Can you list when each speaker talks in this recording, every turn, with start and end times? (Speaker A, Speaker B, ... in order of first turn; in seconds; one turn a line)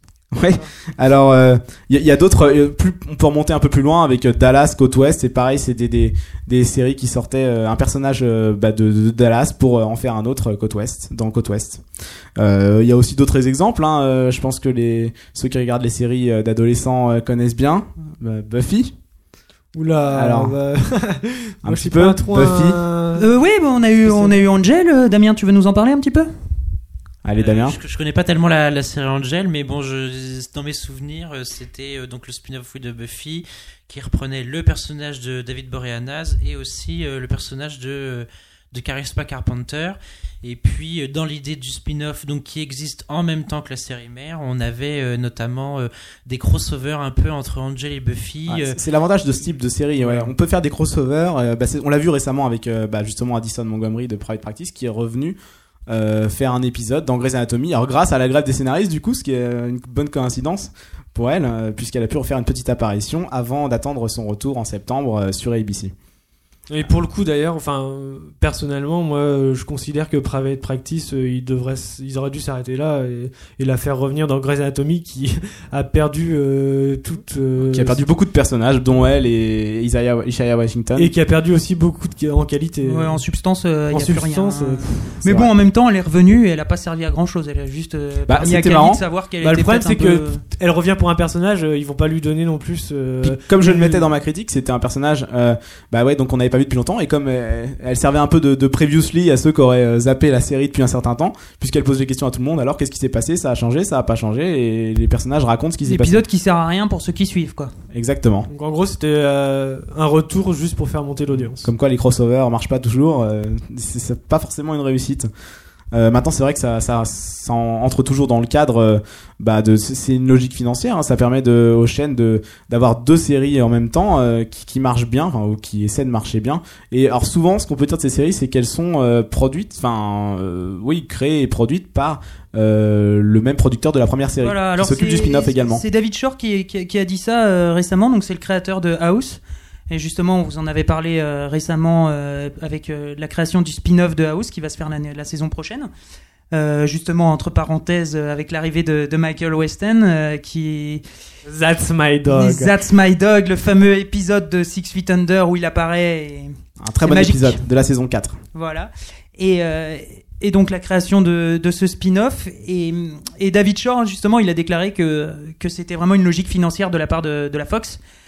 Speaker A: 0.3-11.8
Speaker A: 12.4-18.9
Speaker B: 19.7-23.3
Speaker A: 20.1-20.6
Speaker A: 21.6-22.8
Speaker C: 23.1-26.3
Speaker B: 24.1-24.4
Speaker A: 27.2-27.8
Speaker D: 27.4-48.8
Speaker A: 48.5-55.4
Speaker B: 50.0-50.3
Speaker A: 55.9-65.9
Speaker B: 66.7-78.0
Speaker A: 77.6-81.1
Speaker B: 81.0-83.2
Speaker C: 82.8-90.4
Speaker B: 83.9-85.0
Speaker A: 85.2-85.5
Speaker A: 88.3-89.0
Speaker B: 89.4-94.0
Speaker A: 93.2-106.2
Speaker C: 105.8-107.7
Speaker A: 107.9-108.5
Speaker B: 108.5-111.7
Speaker A: 111.3-115.3
Speaker A: 115.9-135.8
Speaker C: 134.4-145.9
Speaker C: 146.5-151.0
Speaker B: 151.5-152.7
Speaker C: 152.3-157.6
Speaker A: 156.8-158.4
Speaker C: 158.5-168.0